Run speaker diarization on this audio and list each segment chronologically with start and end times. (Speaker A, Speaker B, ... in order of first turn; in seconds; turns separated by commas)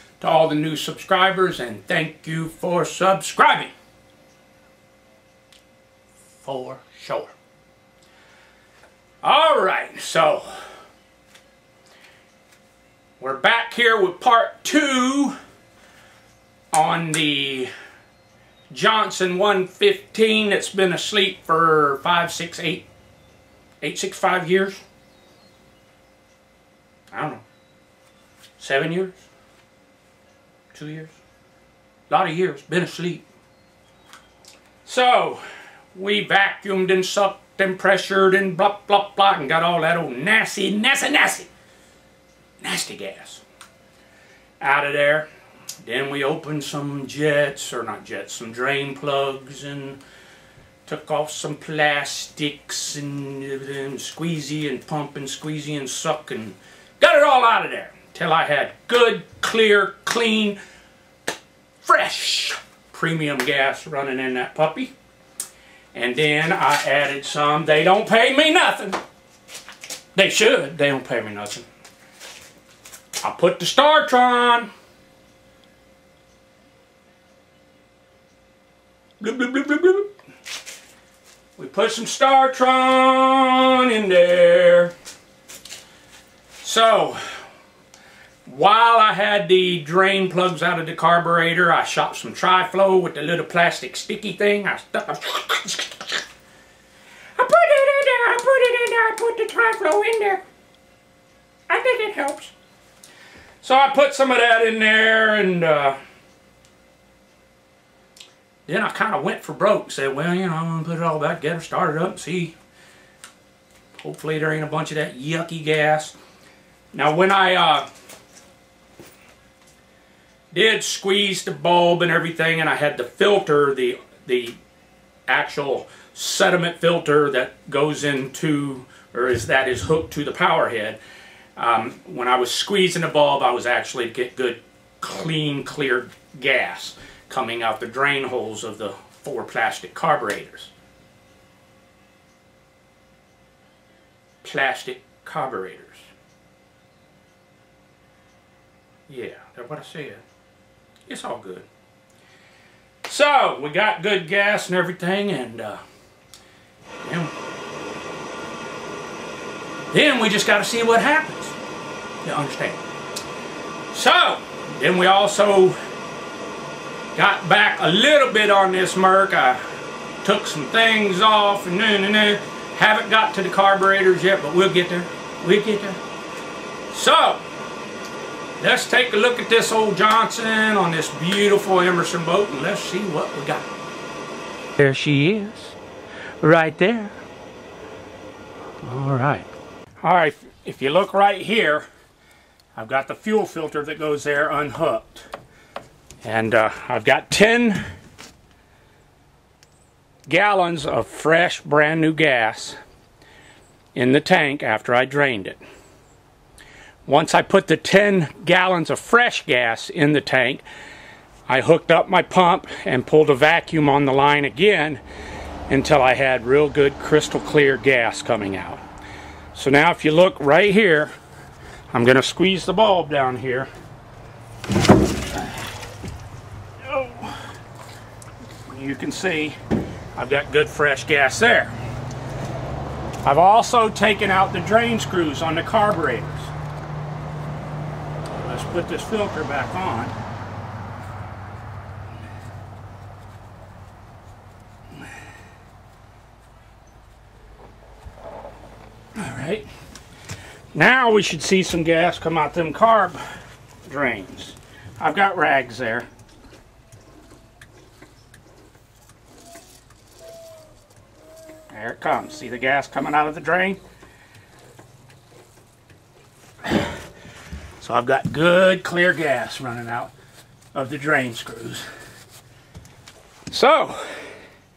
Speaker A: 0.2-3.7, Speaker A: 6.4-7.3, Speaker A: 9.2-10.6, Speaker A: 13.2-15.4, Speaker A: 16.7-17.7, Speaker A: 18.7-22.9, Speaker A: 23.8-24.8, Speaker A: 27.1-27.4, Speaker A: 28.6-29.2, Speaker A: 30.7-31.2, Speaker A: 32.1-33.2, Speaker A: 34.8-41.5, Speaker A: 42.6-43.4, Speaker A: 44.6-45.3, Speaker A: 45.8-50.0, Speaker A: 50.9-60.6, Speaker A: 61.8-64.9, Speaker A: 65.9-69.0, Speaker A: 70.1-71.7, Speaker A: 73.2-74.7, Speaker A: 79.2-80.1, Speaker A: 81.6-84.9, Speaker A: 86.6-87.2, Speaker A: 88.4-96.2, Speaker A: 97.3-100.4, Speaker A: 101.7-102.5, Speaker A: 103.6-106.0, Speaker A: 108.7-112.6, Speaker A: 114.0-116.2, Speaker A: 116.9-117.9, Speaker A: 120.5-124.6, Speaker A: 125.3-131.0, Speaker A: 131.6-140.7, Speaker A: 144.4-146.1, Speaker A: 149.1-150.2, Speaker A: 151.1-151.7, Speaker A: 153.0-155.8, Speaker A: 157.0-157.3, Speaker A: 159.9-161.6, Speaker A: 162.2-162.8, Speaker A: 163.9-165.8, Speaker A: 167.1-169.6, Speaker A: 170.2-176.0, Speaker A: 176.9-177.4, Speaker A: 178.6-183.7, Speaker A: 184.8-185.8, Speaker A: 186.4-187.2, Speaker A: 188.8-189.5, Speaker A: 190.0-191.9, Speaker A: 192.8-195.3, Speaker A: 196.2-197.8, Speaker A: 200.3-202.8, Speaker A: 203.9-205.6, Speaker A: 207.1-210.6, Speaker A: 211.5-215.0, Speaker A: 215.7-218.8, Speaker A: 219.5-221.1, Speaker A: 221.9-223.7, Speaker A: 226.8-227.5, Speaker A: 228.6-229.6, Speaker A: 230.2-231.7, Speaker A: 233.2-236.5, Speaker A: 238.4-240.1, Speaker A: 249.2-249.7, Speaker A: 250.7-253.2, Speaker A: 253.8-256.1, Speaker A: 261.7-263.8, Speaker A: 266.6-266.9, Speaker A: 267.8-270.1, Speaker A: 270.7-271.9, Speaker A: 273.5-274.1